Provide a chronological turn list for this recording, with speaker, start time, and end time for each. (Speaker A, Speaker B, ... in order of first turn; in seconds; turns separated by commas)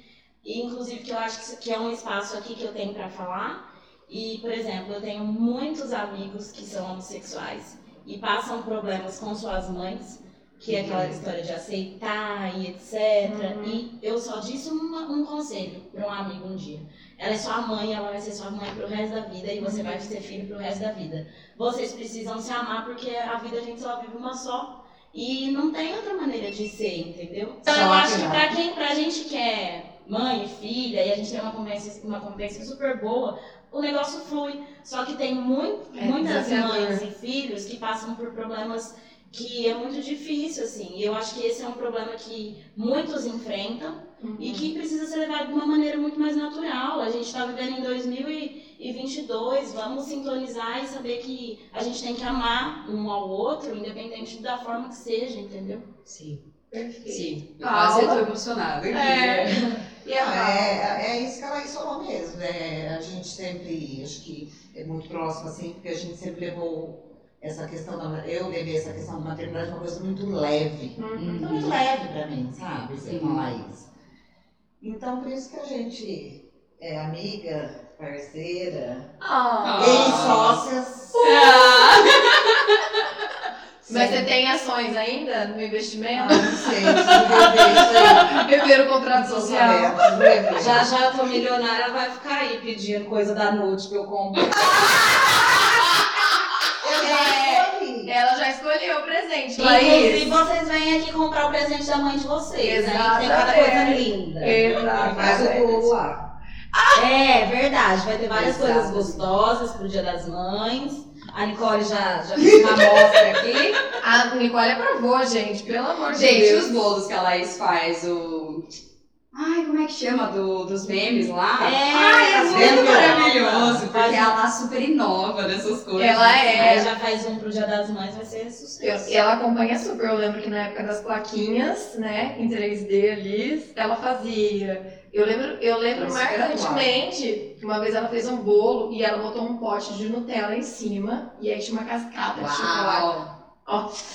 Speaker A: 0.4-55.9, Speaker B: 10.7-11.2, Speaker C: 13.2-13.8, Speaker C: 19.6-20.1, Speaker D: 27.6-28.5, Speaker C: 36.0-37.0, Speaker C: 44.2-44.7, Speaker B: 56.0-56.4, Speaker C: 56.7-58.2, Speaker B: 57.0-59.7, Speaker C: 58.9-61.0, Speaker D: 60.1-73.9, Speaker C: 71.0-71.4, Speaker B: 71.2-71.8, Speaker B: 73.1-73.5, Speaker D: 74.8-79.1, Speaker C: 79.2-80.3, Speaker B: 79.6-80.6, Speaker D: 79.8-81.2, Speaker C: 81.1-82.1, Speaker B: 81.2-82.8, Speaker C: 83.9-90.4, Speaker D: 86.1-88.5, Speaker D: 89.1-90.9, Speaker A: 90.5-95.2, Speaker D: 96.8-98.1, Speaker C: 97.0-100.3, Speaker A: 99.5-105.6, Speaker C: 102.6-105.9, Speaker D: 105.0-106.2, Speaker C: 106.7-107.0, Speaker A: 106.9-113.8, Speaker B: 108.4-109.1, Speaker B: 112.4-113.2, Speaker C: 114.0-116.7, Speaker B: 116.1-118.6, Speaker B: 119.3-126.6, Speaker A: 121.6-124.3, Speaker C: 121.9-122.8, Speaker D: 122.5-123.3, Speaker C: 126.0-126.9, Speaker A: 126.5-129.1, Speaker C: 128.8-143.1, Speaker D: 135.9-136.9, Speaker B: 142.3-143.3, Speaker C: 143.7-143.9